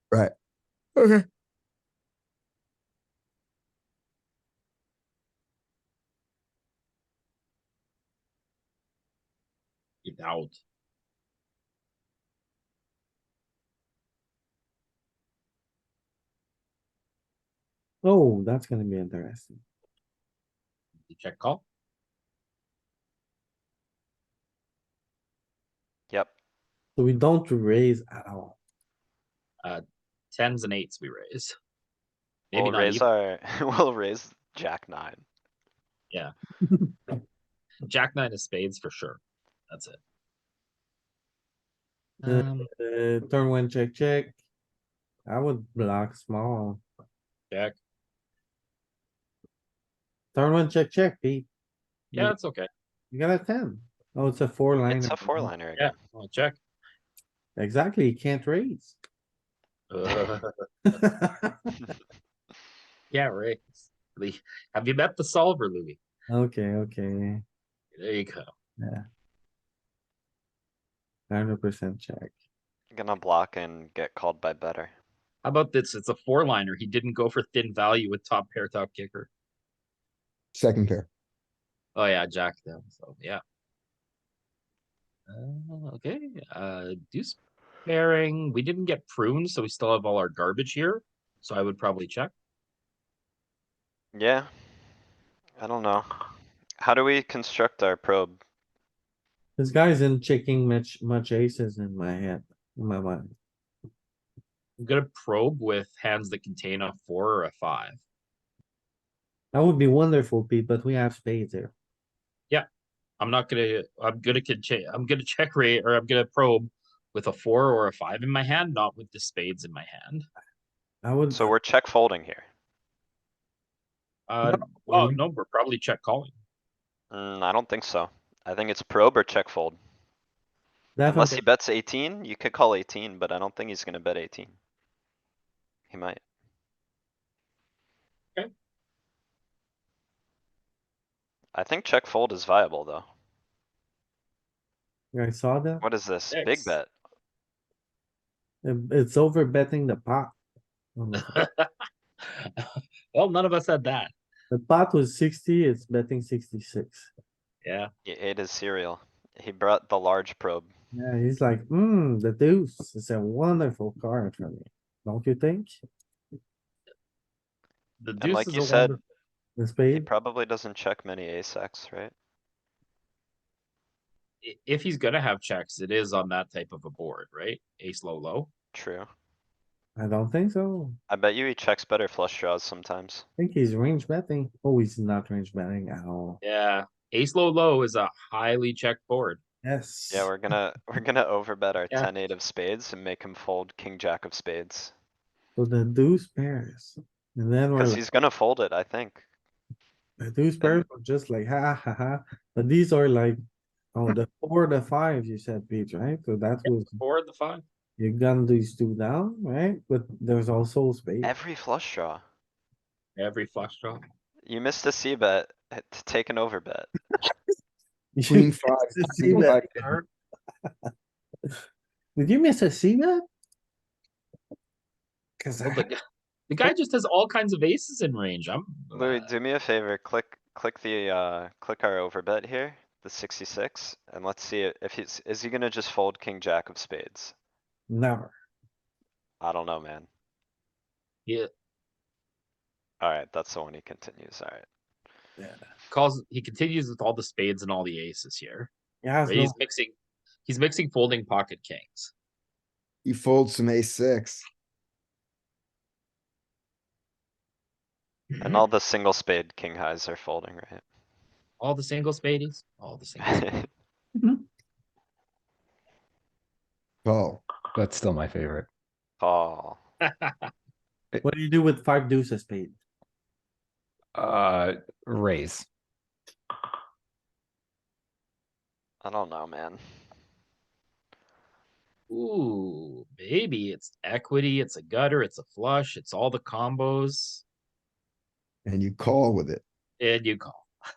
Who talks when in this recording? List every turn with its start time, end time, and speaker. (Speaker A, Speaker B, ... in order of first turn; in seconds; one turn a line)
Speaker A: 1.0-1.2
Speaker B: 10.0-10.6
Speaker C: 18.0-19.6
Speaker B: 21.1-21.6
Speaker C: 27.0-28.6
Speaker B: 29.6-31.6
Speaker B: 32.5-33.1
Speaker D: 32.5-35.2
Speaker B: 37.8-39.2
Speaker B: 39.7-40.0
Speaker B: 42.2-42.7
Speaker C: 42.3-44.4
Speaker C: 45.3-46.8
Speaker B: 47.5-47.8
Speaker C: 50.4-51.5
Speaker B: 52.1-52.7
Speaker C: 53.1-55.5
Speaker D: 54.9-55.9
Speaker B: 55.8-56.6
Speaker C: 57.6-59.0
Speaker B: 59.9-60.5
Speaker C: 60.9-61.6
Speaker B: 63.1-66.0
Speaker C: 66.3-67.4
Speaker B: 68.0-68.5
Speaker C: 71.3-72.3
Speaker D: 72.9-74.9
Speaker B: 75.4-79.3
Speaker A: 80.5-81.1
Speaker B: 82.0-83.4
Speaker B: 85.3-92.3
Speaker D: 94.1-94.5
Speaker D: 95.6-98.4
Speaker C: 99.6-103.3
Speaker B: 104.8-108.0
Speaker C: 109.5-111.7
Speaker B: 113.2-120.3
Speaker C: 121.0-121.5
Speaker D: 121.3-122.5
Speaker B: 124.3-126.3
Speaker C: 124.5-125.2
Speaker D: 127.1-129.8
Speaker C: 131.0-131.4
Speaker D: 131.1-134.5
Speaker D: 135.9-136.2
Speaker D: 141.5-143.1
Speaker C: 145.1-145.8
Speaker D: 145.8-146.9
Speaker B: 146.3-146.8
Speaker C: 148.6-150.4
Speaker C: 151.0-151.4
Speaker B: 151.2-151.7
Speaker B: 152.2-154.1
Speaker C: 154.5-157.1
Speaker B: 157.6-157.9
Speaker D: 158.1-160.7
Speaker C: 160.9-165.8
Speaker B: 168.0-169.0
Speaker D: 168.2-169.0
Speaker C: 169.6-170.1
Speaker D: 169.9-172.1
Speaker B: 174.4-178.5
Speaker D: 178.7-179.1
Speaker C: 180.0-181.0
Speaker D: 181.1-183.2
Speaker C: 183.4-186.4
Speaker B: 186.4-189.4
Speaker C: 189.6-190.3
Speaker D: 190.1-194.9
Speaker C: 195.6-198.0
Speaker D: 197.8-199.2
Speaker C: 200.2-203.4
Speaker C: 203.9-207.0
Speaker B: 206.8-207.7
Speaker C: 208.0-211.3
Speaker D: 211.2-212.2
Speaker B: 213.2-214.0
Speaker D: 214.4-216.9
Speaker C: 218.2-220.0
Speaker A: 218.3-219.9
Speaker C: 222.2-223.2
Speaker C: 225.4-225.9
Speaker B: 225.6-229.3
Speaker D: 228.9-237.3
Speaker C: 237.9-238.3
Speaker D: 239.4-240.1
Speaker D: 243.0-244.7
Speaker C: 245.4-245.7
Speaker B: 245.9-248.7
Speaker C: 249.0-249.6
Speaker B: 249.2-249.9
Speaker B: 250.5-252.1
Speaker A: 253.1-254.4
Speaker D: 258.4-260.8
Speaker B: 261.6-263.5
Speaker D: 263.2-263.7
Speaker A: 267.1-267.4
Speaker E: 267.8-268.7
Speaker D: 269.2-269.8
Speaker B: 270.1-270.5
Speaker C: 271.2-272.8
Speaker E: 274.2-275.7
Speaker D: 279.0-279.8
Speaker B: 282.1-287.4
Speaker A: 288.7-289.6
Speaker B: 290.0-290.7